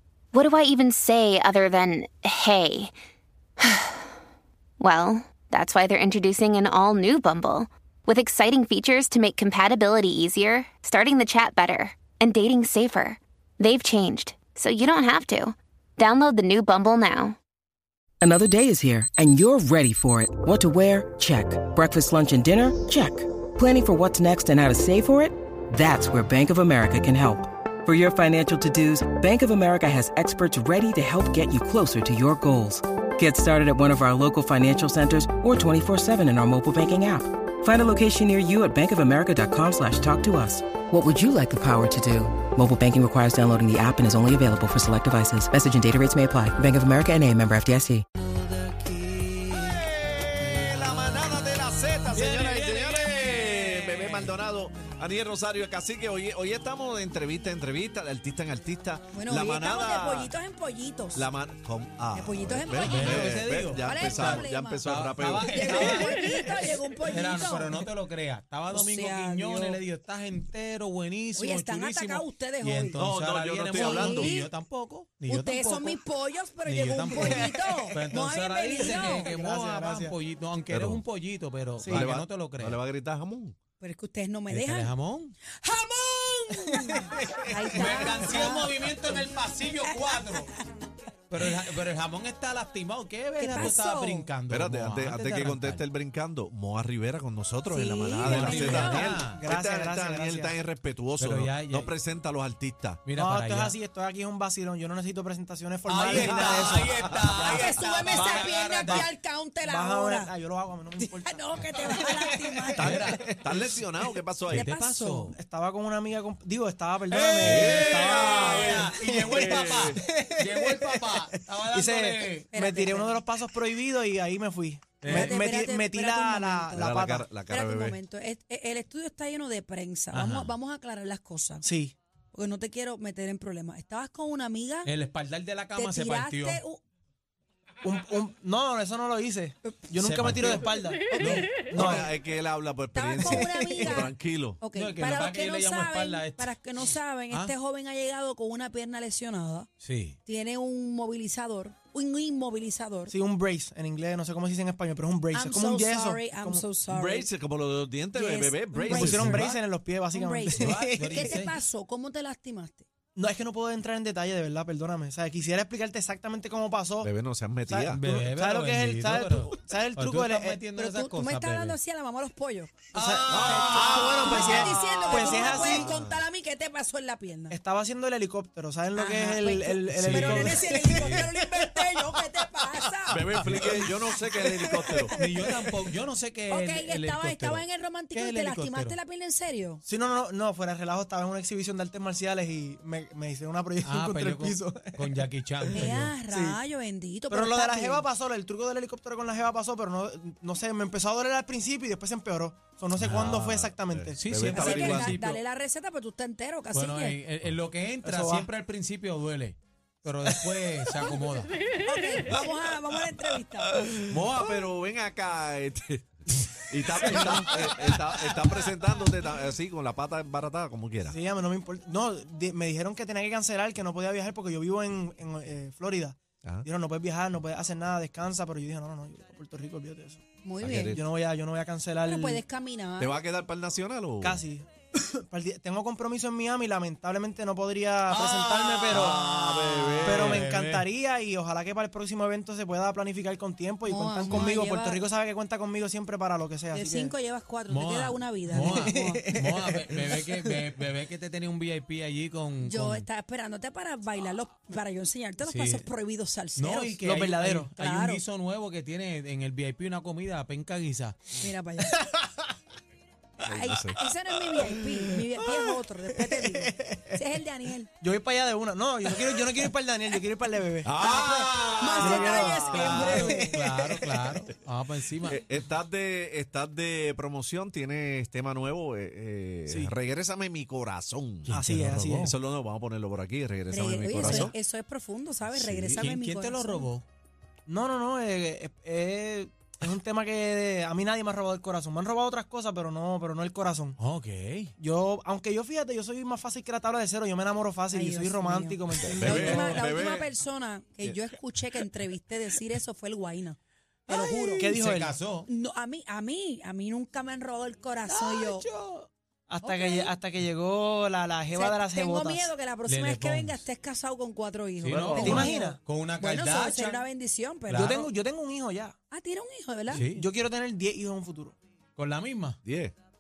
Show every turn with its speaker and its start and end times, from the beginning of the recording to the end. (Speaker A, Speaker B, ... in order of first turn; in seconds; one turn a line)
Speaker A: 0.3-2.9
Speaker A: 4.8-17.4
Speaker B: 18.2-48.0
Speaker C: 49.0-49.3
Speaker D: 49.4-60.3
Speaker C: 52.1-54.4
Speaker E: 59.1-61.3
Speaker D: 61.1-66.1
Speaker E: 62.1-64.8
Speaker C: 62.9-66.5
Speaker E: 65.4-67.8
Speaker C: 67.0-76.0
Speaker E: 68.7-69.8
Speaker E: 71.4-73.0
Speaker D: 73.0-74.3
Speaker E: 73.7-74.5
Speaker E: 75.3-79.3
Speaker C: 76.7-82.8
Speaker F: 77.1-78.0
Speaker F: 78.8-80.2
Speaker D: 80.7-81.0
Speaker F: 81.8-82.1
Speaker D: 81.8-83.5
Speaker E: 83.8-84.9
Speaker C: 84.5-85.4
Speaker E: 85.5-89.3
Speaker F: 86.9-87.4
Speaker C: 87.7-90.5
Speaker E: 89.8-90.7
Speaker C: 91.3-95.8
Speaker E: 93.4-94.3
Speaker D: 94.5-103.0
Speaker E: 97.7-99.2
Speaker C: 98.2-99.4
Speaker F: 98.7-100.6
Speaker C: 101.2-101.9
Speaker C: 103.0-103.8
Speaker F: 103.1-107.6
Speaker C: 105.9-109.1
Speaker D: 106.1-107.7
Speaker E: 107.4-110.3
Speaker F: 108.2-109.0
Speaker F: 109.6-112.3
Speaker E: 111.0-113.2
Speaker D: 112.8-114.7
Speaker C: 112.8-113.2
Speaker E: 114.5-115.3
Speaker C: 114.5-115.4
Speaker F: 115.3-127.3
Speaker C: 117.1-122.5
Speaker D: 117.4-120.0
Speaker E: 122.5-123.2
Speaker C: 125.0-125.4
Speaker E: 125.1-131.7
Speaker D: 126.8-128.0
Speaker C: 130.1-130.5
Speaker F: 131.6-132.0
Speaker E: 132.3-134.9
Speaker C: 134.8-136.6
Speaker E: 135.7-136.8
Speaker F: 137.8-142.1
Speaker E: 139.6-139.9
Speaker C: 140.0-141.7
Speaker E: 141.1-141.5
Speaker D: 141.7-144.6
Speaker E: 142.9-149.7
Speaker C: 144.7-146.6
Speaker C: 149.8-150.2
Speaker E: 150.3-153.2
Speaker F: 153.1-156.7
Speaker E: 155.3-157.3
Speaker D: 156.9-159.4
Speaker E: 158.1-159.5
Speaker F: 158.9-161.4
Speaker C: 159.0-159.6
Speaker E: 160.1-162.9
Speaker C: 160.6-161.6
Speaker F: 163.2-167.1
Speaker D: 167.0-168.0
Speaker F: 167.7-170.6
Speaker C: 167.9-171.8
Speaker E: 170.8-177.6
Speaker C: 172.9-175.6
Speaker F: 172.9-175.9
Speaker D: 173.3-176.2
Speaker F: 177.5-182.2
Speaker E: 178.9-183.2
Speaker C: 179.9-181.3
Speaker D: 183.1-185.1
Speaker C: 183.4-183.9
Speaker F: 183.6-185.1
Speaker C: 185.2-189.0
Speaker E: 186.5-189.8
Speaker F: 189.8-196.6
Speaker C: 193.8-196.1
Speaker E: 195.8-198.1
Speaker F: 197.3-204.2
Speaker D: 203.0-205.3
Speaker C: 203.1-203.3
Speaker C: 204.2-205.4
Speaker E: 204.5-207.2
Speaker C: 206.7-211.7
Speaker F: 208.0-208.5
Speaker E: 211.8-213.9
Speaker D: 214.1-221.2
Speaker F: 217.1-217.7
Speaker F: 221.1-230.2
Speaker E: 230.4-231.0
Speaker D: 230.6-231.0
Speaker F: 230.9-232.4
Speaker E: 232.1-233.2
Speaker D: 233.0-234.4
Speaker F: 234.2-239.2
Speaker C: 238.1-240.9
Speaker D: 238.9-240.5
Speaker F: 240.0-247.2
Speaker E: 243.9-245.0
Speaker E: 246.7-249.3
Speaker C: 247.7-253.1
Speaker F: 248.5-250.6
Speaker E: 252.6-257.0
Speaker C: 255.4-255.9
Speaker C: 256.6-261.2
Speaker F: 257.0-257.7
Speaker E: 257.8-258.2
Speaker E: 261.4-262.1
Speaker D: 263.4-264.0
Speaker E: 263.4-267.9
Speaker F: 266.3-267.1
Speaker F: 268.0-274.2
Speaker D: 270.9-273.3
Speaker E: 271.8-273.5
Speaker C: 272.2-275.4
Speaker D: 275.2-281.6
Speaker F: 279.7-279.9
Speaker C: 281.5-282.3
Speaker F: 281.5-282.4
Speaker D: 282.2-284.6
Speaker E: 283.7-286.9
Speaker F: 284.2-284.5
Speaker D: 285.5-286.1
Speaker C: 285.9-287.1
Speaker F: 287.7-294.0
Speaker C: 294.0-294.7
Speaker F: 294.8-299.8
Speaker E: 297.9-304.8
Speaker D: 299.0-300.3
Speaker C: 304.1-305.5
Speaker F: 304.6-305.2
Speaker E: 305.5-308.6
Speaker C: 308.1-309.1
Speaker F: 309.5-312.5
Speaker E: 309.6-310.1
Speaker E: 311.5-318.0
Speaker C: 312.9-313.7
Speaker C: 314.8-317.1
Speaker D: 314.9-315.5
Speaker F: 315.2-315.8
Speaker C: 317.7-318.1
Speaker F: 317.7-319.0
Speaker E: 319.1-320.0
Speaker C: 319.9-320.3
Speaker F: 319.9-321.6
Speaker C: 322.0-322.6
Speaker D: 322.6-322.9